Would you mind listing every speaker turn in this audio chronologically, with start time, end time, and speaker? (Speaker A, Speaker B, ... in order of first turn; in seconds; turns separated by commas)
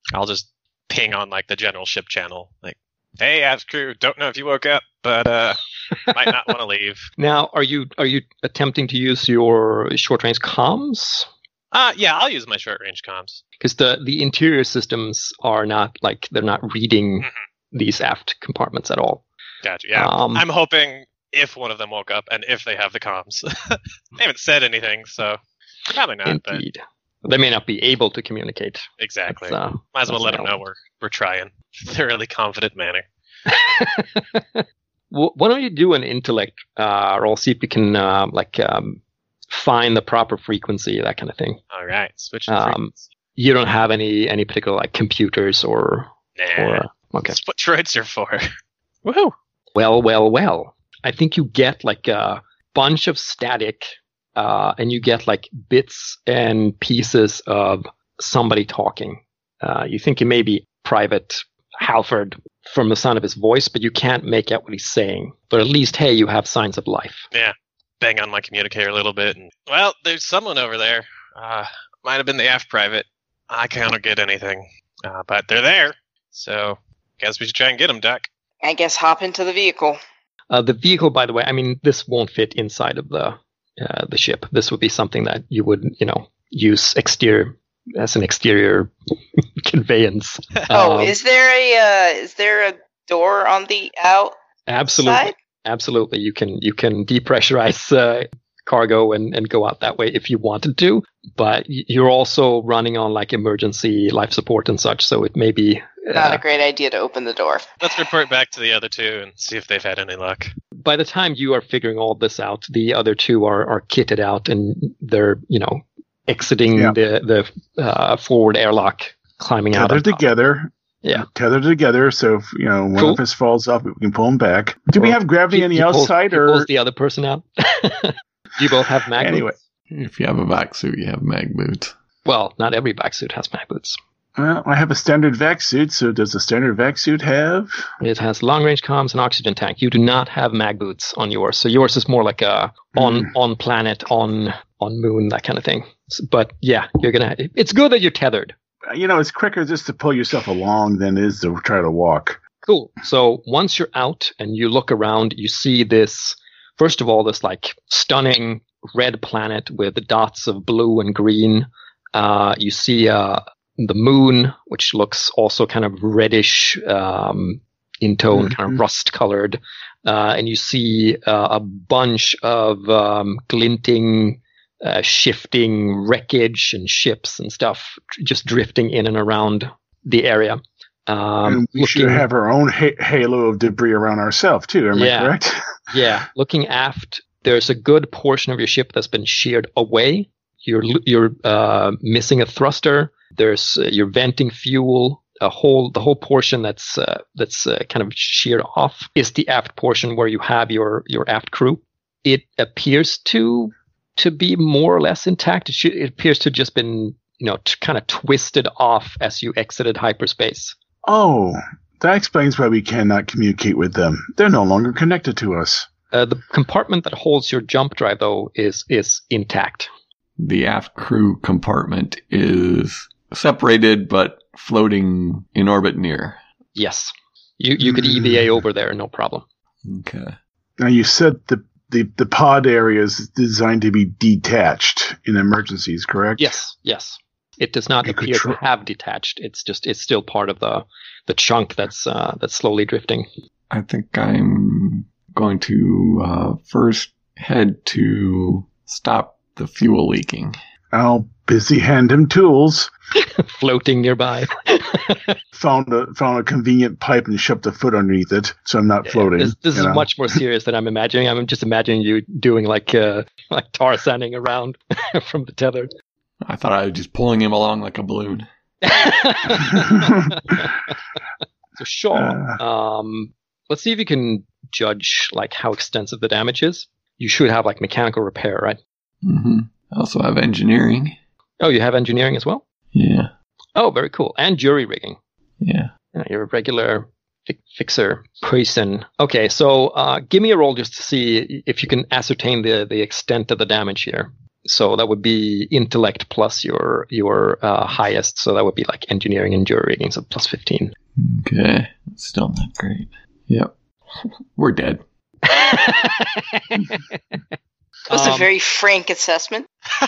Speaker A: 0.1-7.1, Speaker B: 7.2-11.3, Speaker A: 11.7-13.4, Speaker B: 13.6-19.2, Speaker A: 19.6-25.4, Speaker B: 19.9-20.4, Speaker A: 25.9-26.6, Speaker B: 26.2-30.5, Speaker A: 29.0-33.0, Speaker B: 33.5-39.0, Speaker B: 39.5-41.6, Speaker A: 41.7-43.0, Speaker B: 42.5-47.4, Speaker A: 46.4-48.5, Speaker A: 49.0-49.3, Speaker B: 49.7-67.3, Speaker A: 67.3-78.3, Speaker C: 78.6-80.0, Speaker B: 80.5-91.2, Speaker C: 90.7-94.3, Speaker B: 94.7-106.4, Speaker C: 94.9-95.3, Speaker C: 106.1-107.7, Speaker A: 107.8-110.5, Speaker B: 110.8-120.2, Speaker D: 119.7-126.7, Speaker B: 123.0-123.2, Speaker B: 125.0-129.6, Speaker D: 129.2-129.5, Speaker E: 129.9-131.9, Speaker B: 132.2-134.0, Speaker D: 134.4-137.9, Speaker B: 138.0-148.5, Speaker D: 142.9-143.3, Speaker D: 148.9-152.4, Speaker B: 152.6-182.2, Speaker D: 168.3-168.8, Speaker D: 181.4-185.8, Speaker B: 184.9-185.3, Speaker B: 185.9-210.7, Speaker D: 211.0-215.9, Speaker B: 216.1-219.9, Speaker E: 220.4-226.4, Speaker B: 226.7-229.4, Speaker D: 227.8-228.4, Speaker E: 229.8-230.4, Speaker D: 230.8-236.5, Speaker B: 236.4-243.3, Speaker D: 238.0-238.6, Speaker E: 243.7-250.6, Speaker D: 250.9-252.9, Speaker B: 253.2-255.4, Speaker D: 255.5-260.1, Speaker B: 259.1-265.9, Speaker E: 266.4-268.5, Speaker B: 268.8-270.9, Speaker D: 269.9-270.2, Speaker B: 271.8-278.8, Speaker D: 272.1-272.6, Speaker E: 279.2-281.2, Speaker B: 281.6-282.6, Speaker E: 282.9-283.3, Speaker B: 283.7-285.2, Speaker E: 285.6-285.9, Speaker B: 286.1-300.9, Speaker E: 301.1-305.0, Speaker B: 305.4-307.4, Speaker B: 308.1-308.5, Speaker C: 308.1-309.7